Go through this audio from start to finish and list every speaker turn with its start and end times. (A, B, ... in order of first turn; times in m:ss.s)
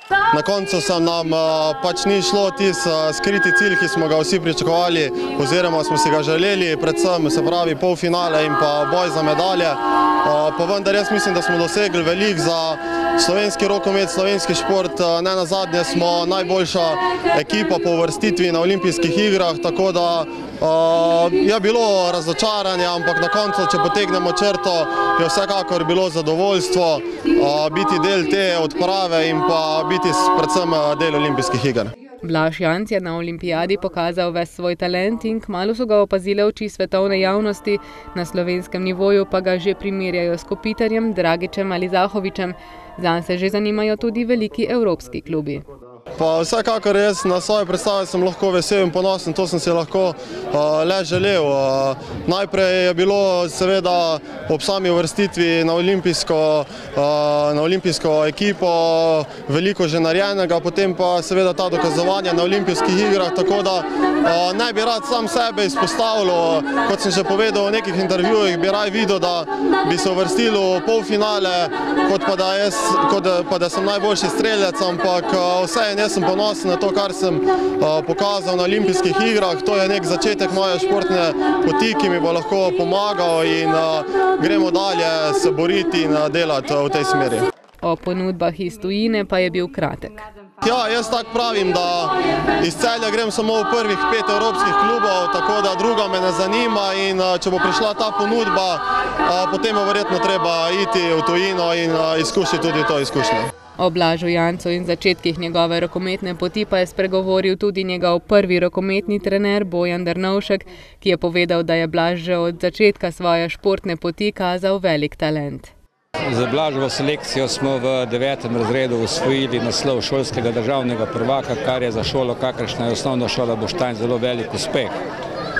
0:00.3-0:31.9 A
0:32.2-0:45.7 B
0:46.2-1:27.5 A
1:27.8-1:30.2 B
1:30.6-1:43.5 A
1:43.8-1:55.7 B
1:56.3-2:05.0 C